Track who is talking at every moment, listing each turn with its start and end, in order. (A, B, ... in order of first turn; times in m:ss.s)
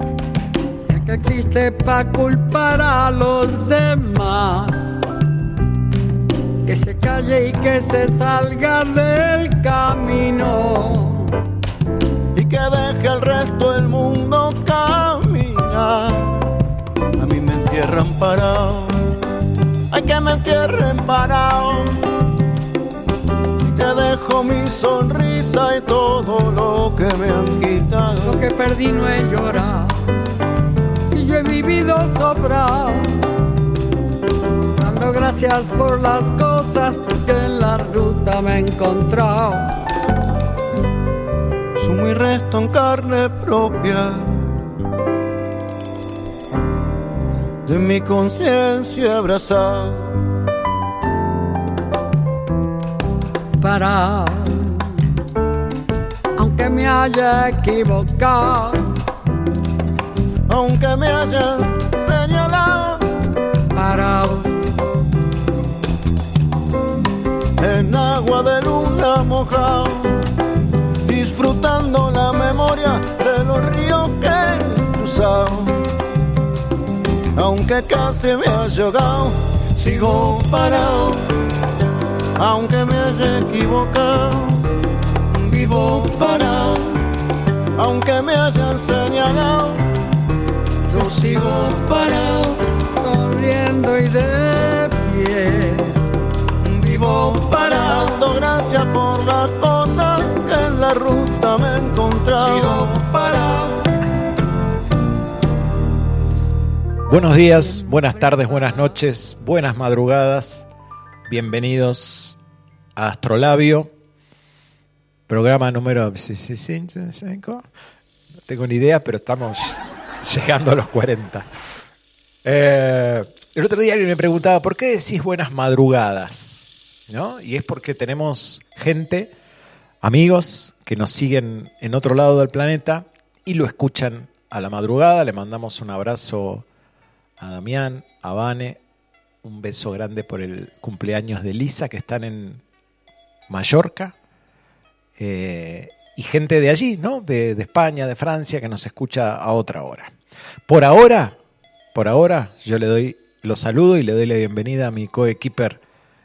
0:00.9-0:05.0 A
0:06.6-0:11.4 A
0:12.3-0:16.5 B
0:17.2-0:19.0 B
0:19.9-0:22.0 B
0:23.6-0:28.4 B
0:28.2-0:29.9 A
0:31.1-0:33.1 A
0:34.8-0:39.8 A
0:41.8-0:44.6 B
0:47.6-0:50.2 B
0:53.6-0:54.9 A
0:56.4-0:58.8 A
1:00.5-1:03.0 B
1:03.7-1:04.5 A
1:07.6-1:10.2 B
1:11.0-1:15.8 B
1:17.4-1:21.2 B
1:22.4-1:24.7 B
1:25.3-1:27.0 B
1:25.7-1:26.3 A
1:27.8-1:29.8 B
1:30.9-1:32.5 B
1:30.9-1:36.0 A
1:36.6-1:43.6 B
1:36.8-1:38.2 A
1:42.4-1:43.5 A
1:47.1-1:50.7 C
1:51.3-1:52.4 C
1:53.0-1:53.9 C
1:55.3-1:57.6 C
1:58.5-2:01.4 C
2:02.4-2:09.3 C
2:10.0-2:16.6 C
2:17.4-2:18.8 C
2:19.4-2:22.6 C
2:23.5-2:24.1 C
2:25.2-2:30.1 C
2:30.7-2:31.4 C
2:31.9-2:35.8 C